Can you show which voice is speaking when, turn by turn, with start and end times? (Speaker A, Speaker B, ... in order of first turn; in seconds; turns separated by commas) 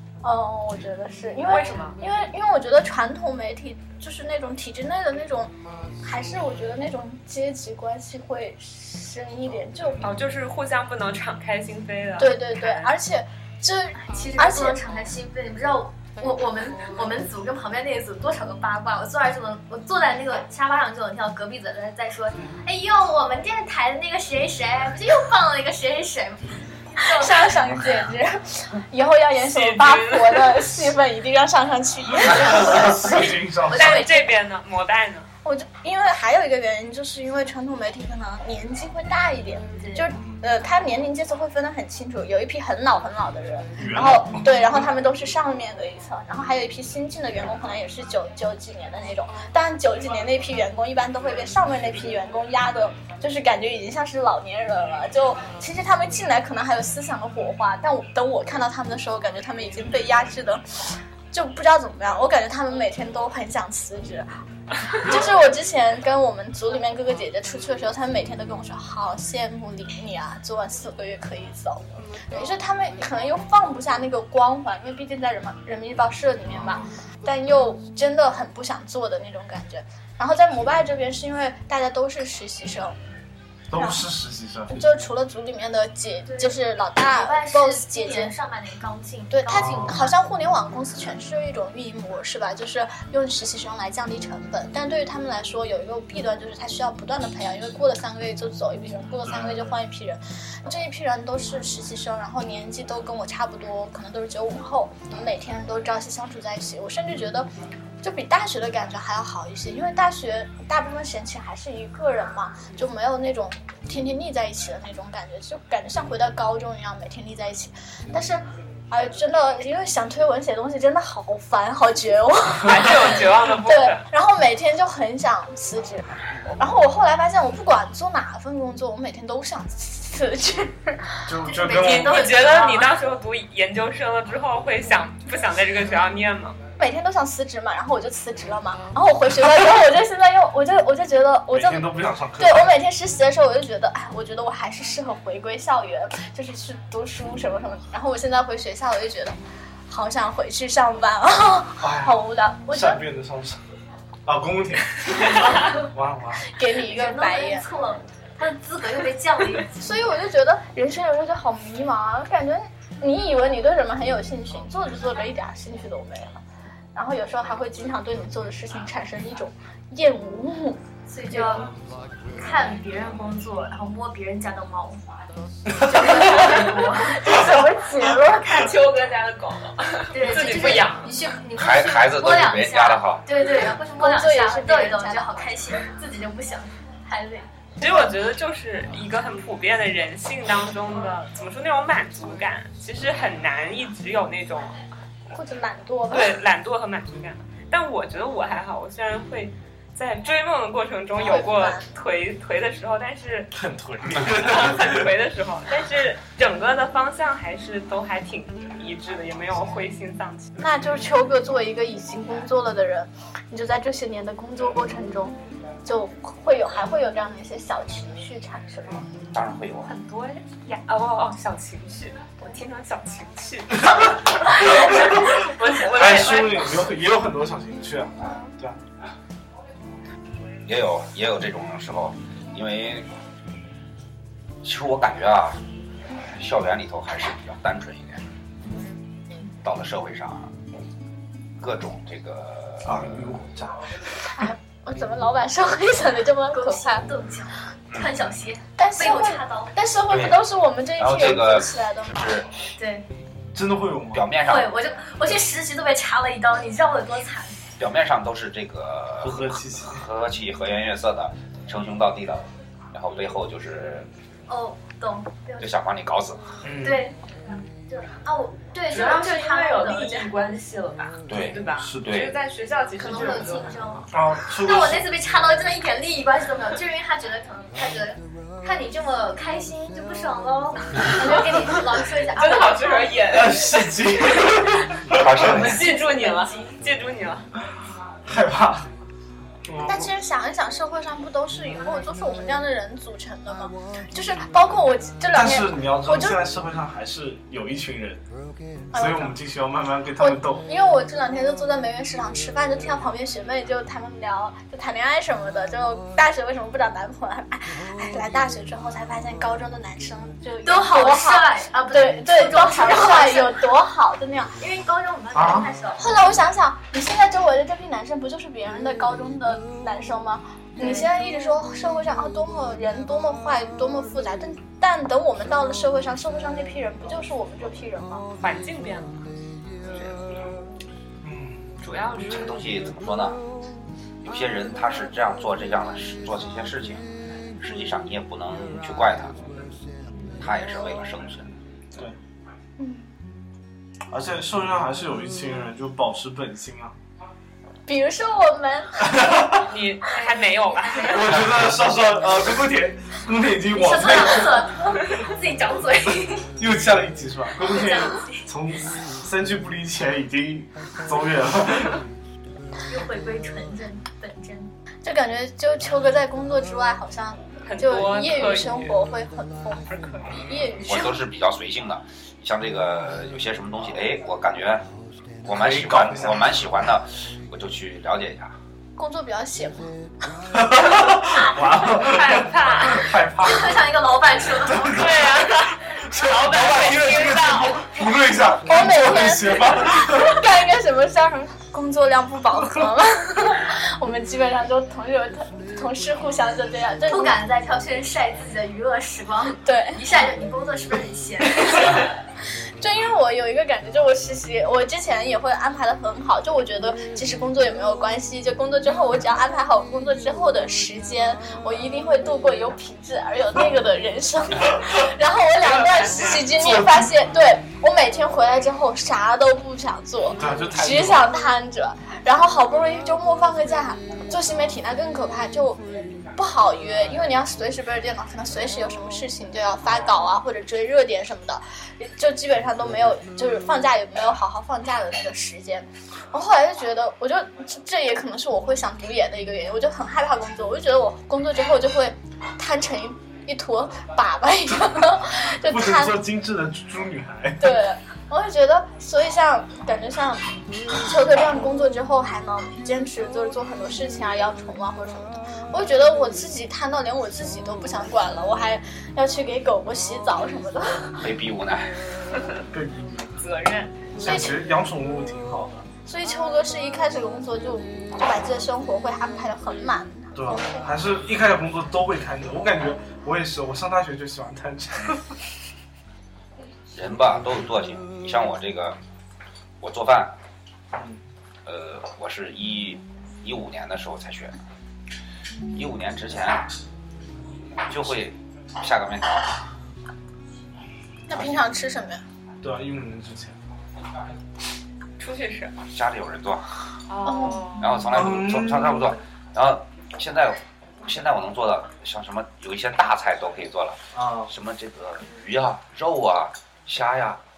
Speaker A: 0.2-10.0, Speaker B: 1.5-2.0, Speaker B: 10.0-12.9, Speaker A: 12.2-14.8, Speaker C: 14.0-27.7, Speaker A: 27.0-33.0, Speaker B: 29.4-30.8, Speaker D: 32.4-34.1, Speaker C: 32.5-34.3, Speaker B: 33.7-35.3, Speaker A: 35.5-60.6, Speaker C: 39.6-40.1, Speaker D: 40.2-40.4, Speaker D: 43.8-44.8, Speaker A: 61.3-64.3, Speaker A: 64.9-83.0, Speaker D: 83.7-84.8, Speaker A: 83.8-84.1, Speaker A: 84.7-88.3, Speaker C: 86.3-90.1, Speaker A: 89.3-107.5, Speaker D: 89.5-90.0, Speaker D: 99.2-99.7, Speaker A: 108.0-126.1, Speaker B: 122.7-124.0, Speaker A: 126.6-131.2, Speaker D: 131.3-132.3, Speaker C: 131.4-133.0, Speaker B: 131.7-136.6, Speaker A: 136.8-149.4, Speaker D: 141.5-142.8, Speaker A: 149.9-153.0, Speaker D: 151.8-153.6, Speaker D: 154.2-156.4, Speaker A: 156.5-157.7, Speaker C: 156.8-160.0, Speaker A: 159.8-166.4, Speaker A: 166.9-171.7, Speaker C: 171.1-171.7, Speaker C: 172.3-175.1, Speaker C: 175.7-177.5, Speaker A: 177.1-178.7, Speaker B: 178.5-181.1, Speaker C: 180.1-187.5, Speaker E: 181.6-183.3, Speaker A: 184.0-185.5, Speaker B: 187.8-194.8, Speaker A: 195.3-196.4, Speaker B: 196.1-203.5, Speaker A: 201.2-201.9, Speaker D: 203.5-205.1, Speaker B: 204.3-210.5, Speaker A: 210.6-219.1, Speaker E: 219.3-219.9, Speaker B: 219.9-226.8, Speaker D: 224.6-228.8, Speaker E: 230.7-233.1, Speaker E: 234.6-238.2, Speaker E: 239.6-240.5, Speaker E: 241.6-243.4, Speaker D: 242.8-244.1, Speaker A: 244.4-247.1, Speaker C: 246.5-249.8, Speaker E: 247.9-248.2, Speaker A: 248.8-252.3, Speaker E: 250.1-250.4, Speaker E: 251.0-252.5, Speaker C: 252.8-253.1, Speaker D: 253.5-254.3, Speaker E: 254.1-254.8, Speaker C: 254.4-257.6, Speaker E: 257.8-264.1, Speaker D: 259.2-260.0, Speaker C: 264.5-265.7, Speaker E: 265.6-266.5, Speaker D: 266.6-267.1, Speaker C: 266.8-270.4, Speaker B: 268.9-273.7, Speaker E: 271.3-272.3, Speaker D: 271.8-272.1, Speaker C: 273.0-283.5, Speaker D: 274.1-275.1, Speaker B: 282.3-284.6, Speaker D: 283.3-285.7, Speaker E: 285.1-285.9, Speaker B: 285.4-287.5, Speaker C: 285.6-286.8, Speaker D: 288.2-288.9, Speaker D: 289.6-290.1, Speaker A: 289.9-296.4, Speaker D: 295.3-298.2, Speaker A: 298.9-299.4, Speaker D: 298.9-300.7, Speaker A: 300.2-314.6, Speaker C: 310.6-313.7, Speaker C: 314.6-316.2, Speaker D: 315.3-315.7, Speaker A: 316.0-328.3, Speaker C: 320.8-321.1, Speaker B: 328.4-329.3, Speaker E: 329.8-330.5, Speaker D: 331.2-331.7, Speaker E: 331.8-333.4, Speaker B: 331.9-332.8, Speaker E: 334.2-337.1, Speaker E: 337.6-339.5, Speaker E: 340.4-341.5, Speaker A: 342.8-343.1, Speaker D: 344.1-347.0, Speaker A: 347.9-349.4, Speaker D: 349.1-349.7, Speaker B: 349.7-351.4, Speaker C: 350.8-351.2, Speaker D: 351.0-354.7, Speaker C: 353.7-356.5, Speaker D: 356.6-362.0, Speaker C: 357.6-358.5, Speaker C: 362.9-364.7, Speaker A: 365.0-371.2, Speaker B: 367.7-369.0, Speaker B: 369.9-370.4, Speaker E: 370.8-374.9, Speaker E: 375.4-378.6, Speaker D: 375.5-376.6, Speaker A: 379.0-380.0, Speaker D: 380.5-383.9, Speaker B: 381.9-383.1, Speaker C: 383.4-385.2, Speaker D: 384.6-390.5, Speaker B: 384.9-388.1, Speaker A: 388.6-397.4, Speaker C: 397.0-402.1, Speaker A: 399.6-400.0, Speaker A: 402.8-446.2, Speaker B: 415.6-416.5, Speaker D: 416.6-417.1, Speaker D: 420.3-421.3, Speaker D: 445.6-447.8, Speaker A: 447.6-461.3, Speaker E: 461.2-462.0, Speaker D: 462.7-463.4, Speaker B: 463.4-463.9, Speaker D: 464.2-465.9, Speaker A: 464.2-464.6, Speaker A: 466.1-470.8, Speaker D: 470.4-475.3, Speaker E: 476.9-479.0, Speaker E: 479.8-480.4, Speaker D: 480.9-481.2, Speaker E: 481.7-484.6, Speaker E: 485.7-486.7, Speaker E: 487.9-489.6, Speaker A: 491.3-492.2, Speaker D: 492.6-493.6, Speaker B: 495.2-495.7, Speaker E: 495.9-497.0, Speaker B: 497.1-498.0, Speaker A: 497.2-497.8, Speaker E: 497.8-507.4, Speaker D: 498.1-499.1, Speaker D: 504.1-504.5